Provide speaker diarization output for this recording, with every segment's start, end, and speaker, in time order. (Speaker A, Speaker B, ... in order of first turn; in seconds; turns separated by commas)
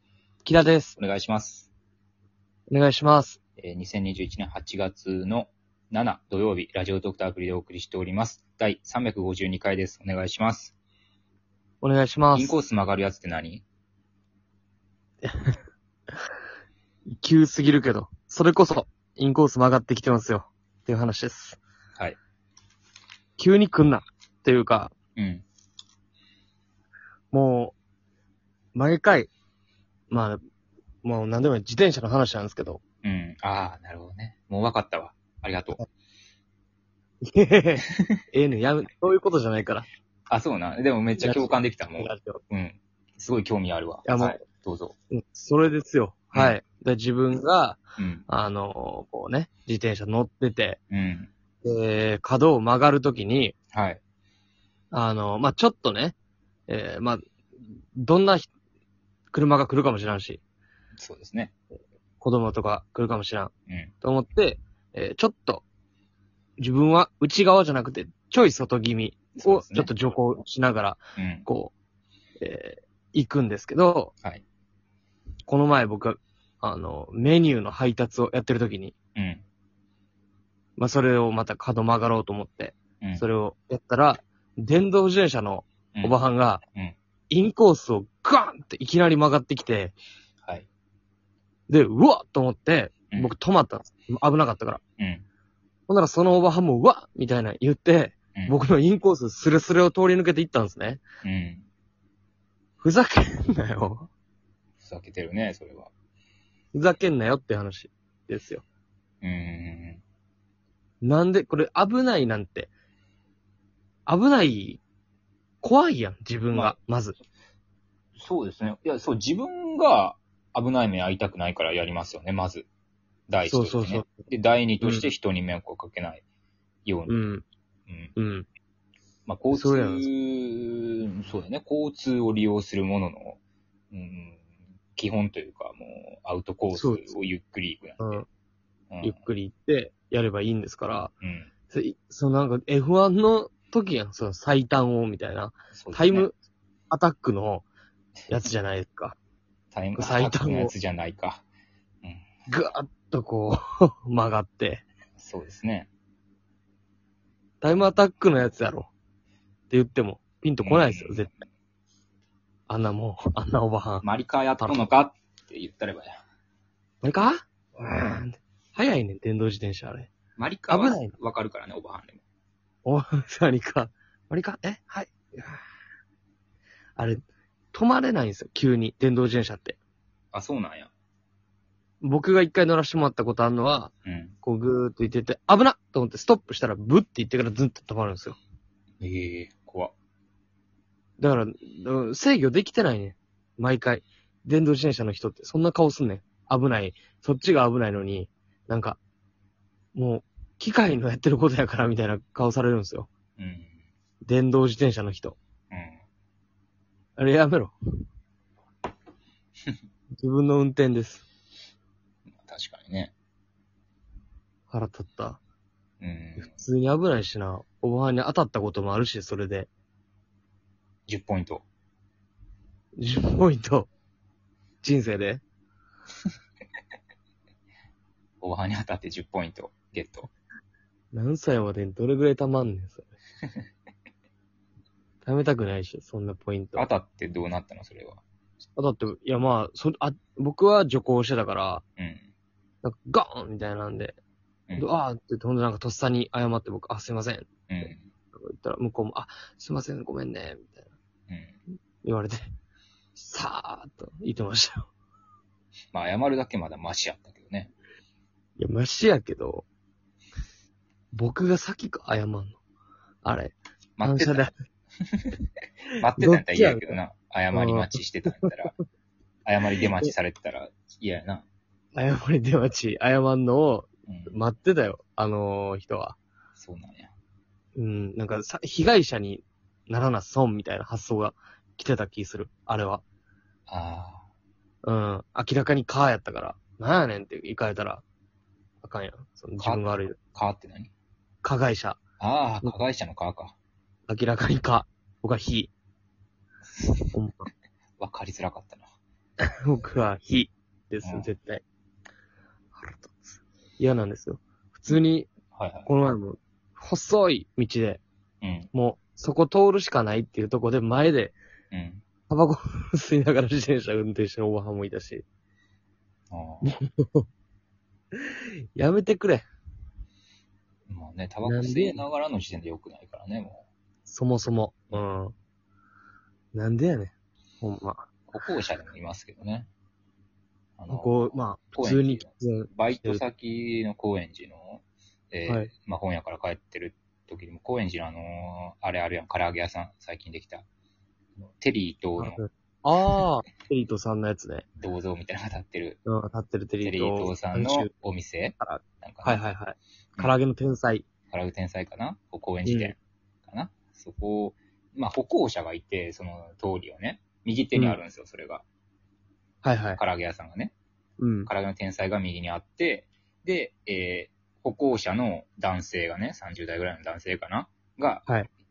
Speaker A: 0.4-1.0, Speaker B: 0.9-1.7, Speaker A: 2.7-3.4, Speaker B: 3.6-10.7, Speaker A: 11.8-12.6, Speaker B: 12.3-13.6, Speaker A: 15.2-15.5, Speaker A: 17.1-21.6, Speaker A: 23.4-24.9, Speaker B: 25.1-25.4, Speaker A: 27.3-27.8, Speaker A: 28.7-29.3, Speaker A: 30.1-30.4, Speaker A: 31.0-32.8, Speaker B: 33.0-35.8, Speaker A: 37.2-39.9, Speaker B: 40.3-44.9, Speaker A: 41.2-42.4, Speaker A: 44.0-44.4, Speaker A: 45.1-50.8, Speaker B: 48.0-48.2, Speaker B: 50.9-51.3, Speaker A: 51.6-53.5, Speaker B: 53.7-54.0, Speaker A: 54.9-56.1, Speaker A: 56.7-57.2, Speaker A: 58.0-58.5, Speaker A: 59.3-60.4, Speaker B: 61.0-61.5, Speaker A: 62.2-65.6, Speaker A: 66.6-71.7, Speaker B: 69.3-70.2, Speaker B: 71.2-71.5, Speaker A: 72.4-74.1, Speaker A: 75.5-78.9, Speaker B: 79.2-79.4, Speaker A: 80.8-86.6, Speaker A: 87.3-89.9, Speaker A: 91.7-94.8, Speaker B: 95.0-95.2, Speaker A: 95.9-101.0, Speaker B: 101.2-101.7, Speaker A: 102.8-104.1, Speaker B: 104.8-105.9, Speaker A: 106.7-108.6, Speaker B: 109.2-110.0, Speaker A: 111.0-112.7, Speaker A: 114.1-114.8, Speaker A: 115.6-117.2, Speaker B: 118.2-122.7, Speaker B: 123.3-126.2, Speaker A: 123.5-124.2, Speaker A: 124.8-125.1, Speaker B: 126.8-127.2, Speaker A: 127.1-127.5, Speaker B: 127.9-128.1, Speaker A: 128.2-128.5, Speaker B: 129.2-133.4, Speaker A: 129.5-130.1, Speaker B: 133.9-134.4, Speaker B: 134.9-138.2, Speaker A: 136.7-137.1, Speaker A: 138.0-138.3, Speaker B: 138.9-139.2, Speaker A: 139.0-141.1, Speaker B: 141.2-141.5, Speaker A: 141.7-146.3, Speaker B: 145.7-146.3, Speaker A: 146.9-147.6, Speaker A: 148.3-149.2, Speaker B: 149.7-151.4, Speaker A: 149.9-150.7, Speaker A: 152.5-154.8, Speaker B: 155.2-155.9, Speaker A: 157.6-158.9, Speaker A: 159.7-161.3, Speaker B: 160.6-161.3, Speaker A: 162.7-164.0, Speaker B: 164.0-166.2, Speaker A: 164.6-164.9, Speaker A: 167.0-170.1, Speaker B: 170.4-172.2, Speaker A: 170.7-171.1, Speaker A: 172.8-175.6, Speaker A: 177.0-177.2, Speaker A: 177.7-179.8, Speaker B: 180.3-180.9, Speaker A: 182.0-183.9, Speaker B: 184.0-184.3, Speaker A: 184.4-188.4, Speaker B: 189.0-189.9, Speaker A: 191.2-199.0, Speaker A: 199.9-203.1, Speaker B: 203.4-203.7, Speaker A: 204.2-205.4, Speaker B: 205.7-206.0, Speaker A: 207.2-207.7, Speaker A: 210.2-211.2, Speaker B: 212.3-213.1, Speaker A: 214.7-215.4, Speaker B: 216.0-216.6, Speaker A: 216.4-219.7, Speaker B: 221.1-221.6, Speaker A: 223.0-223.9, Speaker A: 224.8-225.4, Speaker B: 228.4-230.3, Speaker A: 231.1-233.0, Speaker A: 235.2-236.9, Speaker B: 236.8-238.2, Speaker A: 238.8-241.8, Speaker B: 242.0-242.2, Speaker A: 242.8-244.2, Speaker A: 244.8-250.8, Speaker B: 247.7-248.1, Speaker B: 251.3-251.6, Speaker A: 252.0-252.4, Speaker A: 253.1-254.9, Speaker B: 255.9-257.7, Speaker A: 258.6-259.7, Speaker A: 261.1-262.6, Speaker A: 263.2-264.5, Speaker B: 264.0-264.5, Speaker B: 266.0-268.7, Speaker A: 266.1-267.0, Speaker A: 267.5-268.5, Speaker B: 269.4-271.4, Speaker A: 271.9-276.2, Speaker B: 274.1-274.4, Speaker B: 276.5-277.1, Speaker A: 277.8-283.0, Speaker B: 283.7-284.3, Speaker A: 284.8-288.0, Speaker A: 288.8-290.2, Speaker B: 289.6-290.9, Speaker A: 291.4-292.0, Speaker B: 292.2-293.5, Speaker A: 294.1-295.7, Speaker B: 296.8-297.1, Speaker A: 297.1-297.5, Speaker B: 298.0-298.9, Speaker A: 299.6-301.6, Speaker B: 301.0-301.3, Speaker A: 302.8-305.3, Speaker B: 305.5-305.9, Speaker A: 305.9-308.0, Speaker B: 308.4-308.7, Speaker A: 308.7-311.4, Speaker B: 311.7-312.0, Speaker A: 312.3-315.2, Speaker B: 316.3-316.7, Speaker A: 316.6-317.3, Speaker A: 318.1-319.4, Speaker B: 320.9-323.6, Speaker A: 321.4-322.1, Speaker A: 324.1-325.3, Speaker A: 326.5-328.1, Speaker B: 328.3-329.7, Speaker B: 330.8-340.6, Speaker A: 330.9-333.2, Speaker B: 341.4-342.4, Speaker A: 342.2-344.6, Speaker B: 344.8-346.0, Speaker A: 346.1-347.9, Speaker B: 346.8-349.4, Speaker A: 348.6-351.1, Speaker B: 351.3-358.6, Speaker A: 352.6-352.9, Speaker A: 359.6-360.0, Speaker B: 359.9-360.7, Speaker A: 361.2-361.5, Speaker B: 361.4-368.3